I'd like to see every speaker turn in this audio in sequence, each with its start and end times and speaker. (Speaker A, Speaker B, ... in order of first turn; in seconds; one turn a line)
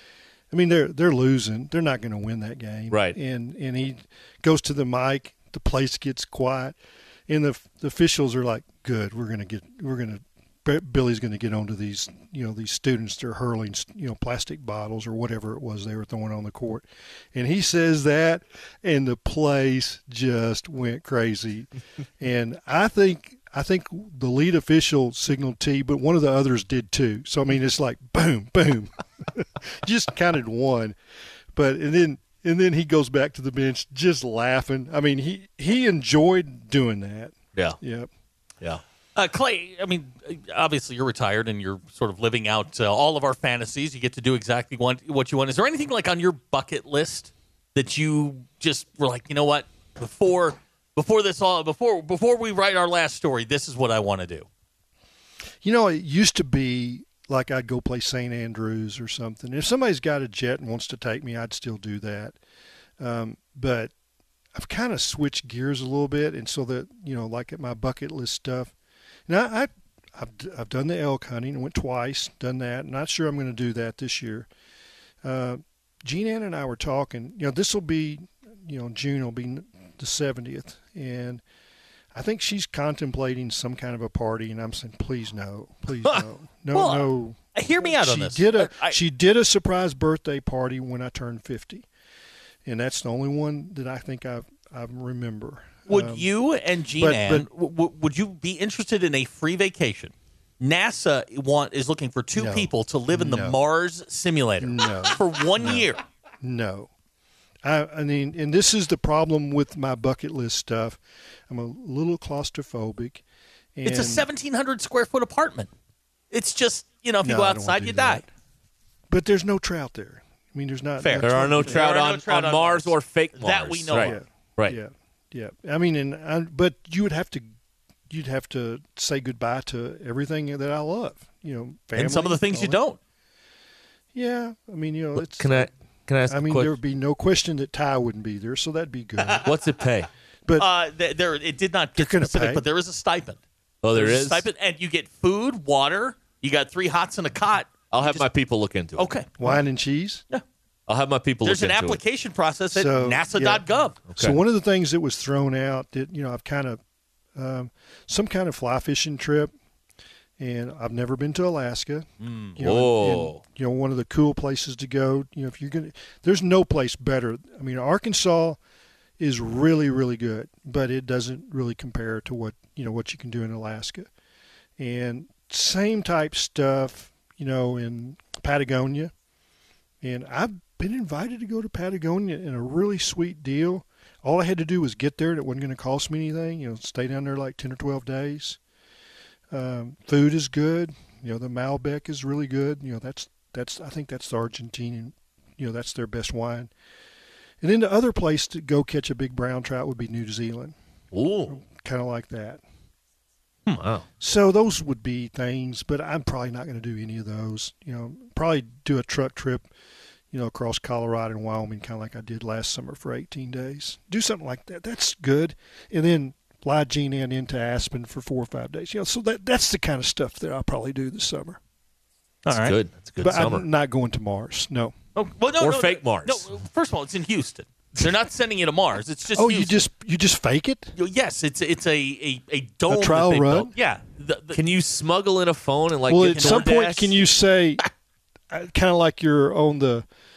Speaker A: 0.5-6.8
Speaker B: 2.9-3.2
Speaker A: 7.3-30.9
Speaker A: 31.5-38.1
Speaker C: 39.1-54.5
Speaker A: 55.6-62.4
Speaker A: 63.0-63.9
Speaker A: 64.5-68.7
Speaker A: 69.3-74.5
Speaker A: 75.2-81.4
Speaker A: 82.1-91.8
Speaker C: 86.7-89.0
Speaker A: 92.7-96.3
Speaker C: 95.9-106.0
Speaker A: 97.0-97.5
Speaker A: 102.3-103.6
Speaker A: 104.6-105.9
Speaker A: 106.4-106.9
Speaker A: 107.6-113.2
Speaker A: 113.8-114.3
Speaker C: 113.8-115.7
Speaker C: 116.3-118.2
Speaker A: 117.2-118.3
Speaker A: 119.1-121.8
Speaker C: 121.0-124.2
Speaker B: 121.2-124.8
Speaker A: 124.0-127.5
Speaker A: 128.1-132.8
Speaker C: 131.9-133.0
Speaker A: 134.1-135.7
Speaker B: 135.1-136.8
Speaker A: 136.3-139.5
Speaker B: 139.4-140.1
Speaker C: 140.6-143.4
Speaker A: 141.9-142.6
Speaker B: 143.8-144.5
Speaker C: 143.9-148.2
Speaker B: 147.9-149.1
Speaker C: 149.0-149.6
Speaker A: 149.4-150.2
Speaker B: 150.9-152.0
Speaker C: 151.4-154.0
Speaker A: 152.7-156.8
Speaker B: 154.1-154.4
Speaker A: 157.3-159.5
Speaker A: 160.4-168.6
Speaker C: 162.2-162.6
Speaker B: 162.6-163.4
Speaker A: 169.2-174.1
Speaker A: 174.8-179.1
Speaker A: 180.0-188.6
Speaker A: 189.5-196.7
Speaker A: 197.6-200.7
Speaker B: 201.1-201.5
Speaker A: 201.5-202.6
Speaker B: 203.7-204.1
Speaker A: 204.2-209.7
Speaker A: 210.3-221.6
Speaker C: 222.4-222.8
Speaker B: 222.5-223.7
Speaker A: 223.2-224.9
Speaker C: 225.2-229.8
Speaker B: 225.6-226.5
Speaker A: 229.3-230.9
Speaker C: 230.9-234.6
Speaker A: 232.9-233.7
Speaker B: 234.5-237.2
Speaker A: 236.1-237.8
Speaker C: 236.2-236.9
Speaker A: 238.5-240.1